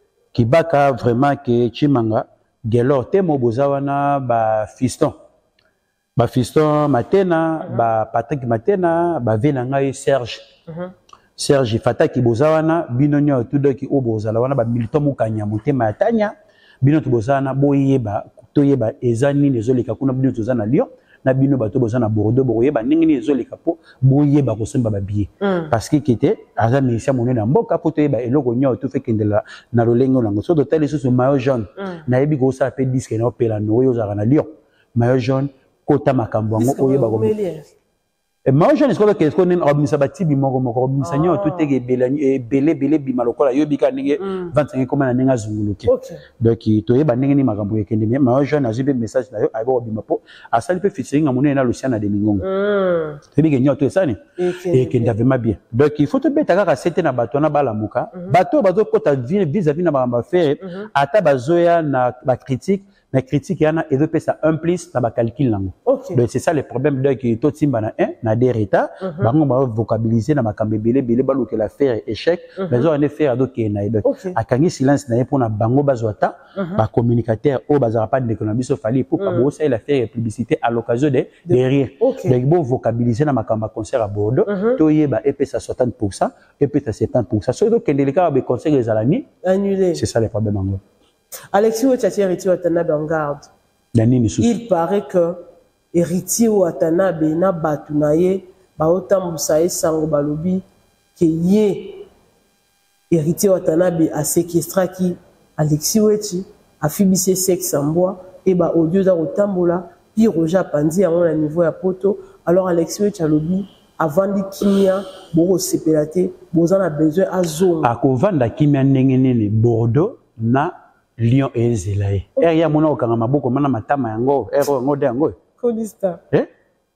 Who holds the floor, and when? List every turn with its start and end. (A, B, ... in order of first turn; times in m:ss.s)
0:00.3-0:05.1 A
0:06.2-0:10.5 A
0:11.4-0:37.3 A
0:25.4-0:25.7 B
0:36.6-0:37.7 B
0:38.4-0:52.4 A
0:41.0-0:41.7 B
0:44.2-0:44.5 B
0:45.9-0:46.2 B
0:52.4-0:53.2 B
0:53.3-1:29.2 A
0:54.4-0:55.2 B
0:58.1-0:58.4 B
1:00.6-1:00.9 B
1:05.8-1:06.2 B
1:09.0-1:09.3 B
1:12.6-1:12.9 B
1:14.0-1:14.4 B
1:16.5-1:16.8 B
1:19.2-1:19.5 B
1:21.5-1:22.4 B
1:24.4-1:24.8 B
1:29.4-1:30.0 B
1:29.9-1:30.8 A
1:31.5-1:33.5 B
1:33.9-1:34.5 A
1:34.4-1:40.6 B
1:41.2-1:42.1 B
1:43.1-1:57.9 B
1:57.8-2:05.4 A
2:05.6-2:06.2 B